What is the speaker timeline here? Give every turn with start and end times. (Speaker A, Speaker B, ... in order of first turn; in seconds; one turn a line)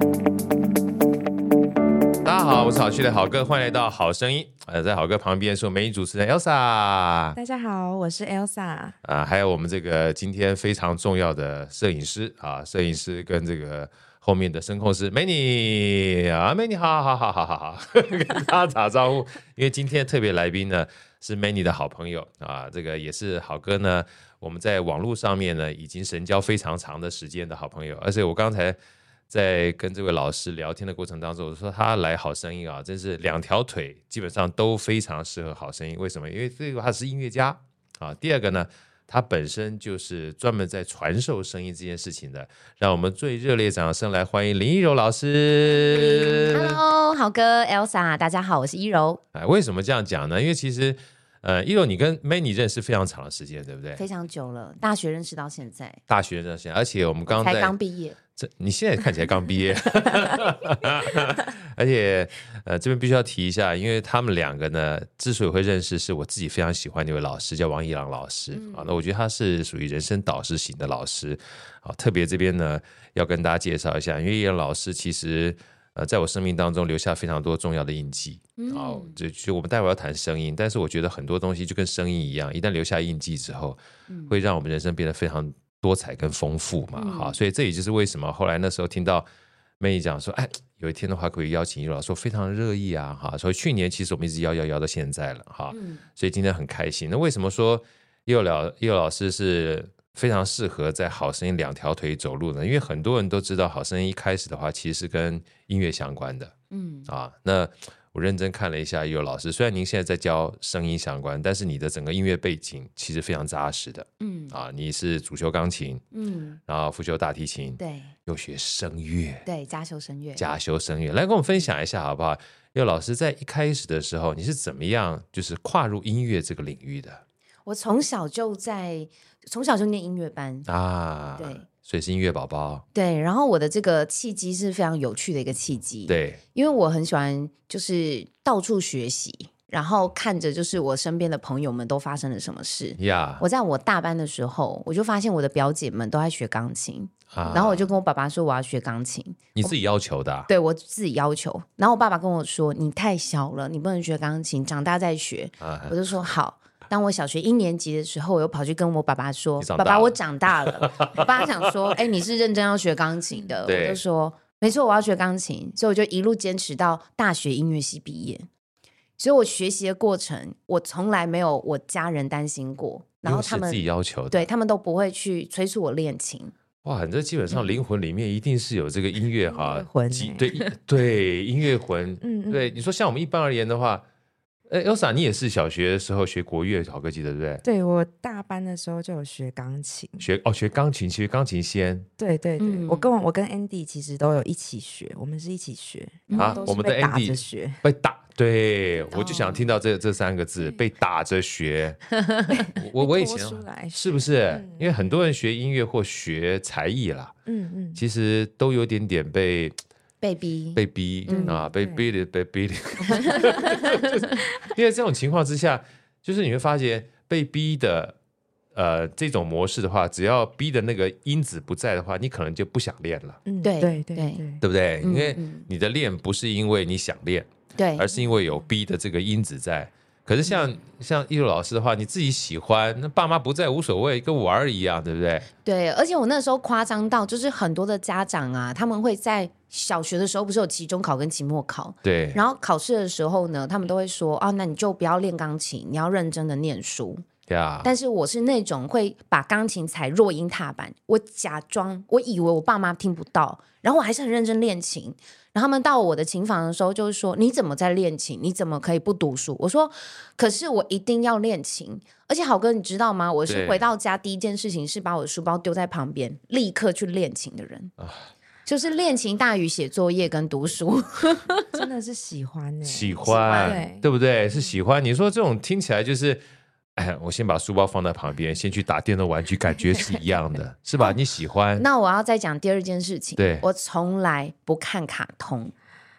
Speaker A: 2.2-7.4
Speaker B: 7.3-9.0
Speaker A: 9.0-28.8
Speaker A: 29.3-46.8
Speaker C: 46.4-49.2
Speaker A: 49.3-54.0
Speaker C: 54.0-56.0
Speaker A: 56.1-57.7
Speaker C: 57.3-58.2
Speaker A: 58.4-83.8
Speaker C: 68.5-68.9
Speaker C: 78.6-79.2
Speaker C: 84.1-84.3
Speaker A: 84.3-89.3
Speaker C: 87.0-87.4
Speaker A: 89.8-106.5
Speaker C: 95.7-96.0
Speaker C: 106.7-107.1
Speaker A: 107.1-116.0
Speaker C: 114.2-114.5
Speaker C: 116.1-116.6
Speaker A: 116.7-119.5
Speaker C: 117.8-118.1
Speaker C: 119.5-120.5
Speaker A: 120.4-127.2
Speaker C: 127.7-130.7
Speaker A: 130.7-132.8
Speaker C: 131.4-131.7
Speaker C: 132.9-149.7
Speaker A: 136.1-136.4
Speaker A: 143.0-143.4
Speaker A: 147.3-147.8
Speaker A: 149.6-150.5
Speaker C: 150.5-168.5
Speaker A: 155.6-156.0
Speaker A: 159.6-161.7
Speaker A: 163.7-164.0
Speaker C: 169.2-176.5
Speaker A: 173.2-174.5
Speaker A: 176.8-184.0
Speaker B: 179.5-180.7
Speaker B: 182.2-182.8
Speaker A: 184.7-187.6
Speaker B: 187.6-190.3
Speaker A: 190.2-192.1
Speaker B: 192.2-197.8
Speaker C: 192.6-193.1
Speaker C: 196.3-196.8
Speaker A: 196.3-202.0
Speaker C: 199.1-199.7
Speaker C: 202.1-202.7
Speaker B: 202.8-205.0
Speaker A: 202.8-207.3
Speaker B: 207.5-208.0
Speaker A: 208.0-209.8
Speaker C: 210.2-211.6
Speaker A: 210.8-218.2
Speaker B: 211.3-212.1
Speaker C: 213.1-214.3
Speaker B: 213.3-213.8
Speaker A: 218.8-223.4
Speaker B: 223.5-224.6
Speaker C: 223.6-224.4
Speaker A: 224.6-235.5
Speaker C: 225.0-225.7
Speaker C: 227.8-228.1
Speaker C: 235.7-247.2
Speaker A: 242.0-242.4
Speaker A: 247.5-247.9
Speaker C: 247.8-267.9
Speaker A: 263.5-263.8
Speaker C: 268.7-271.8
Speaker B: 271.7-274.1
Speaker A: 272.9-276.4
Speaker C: 273.2-273.9
Speaker A: 277.0-281.9
Speaker C: 281.8-285.7
Speaker A: 283.4-283.6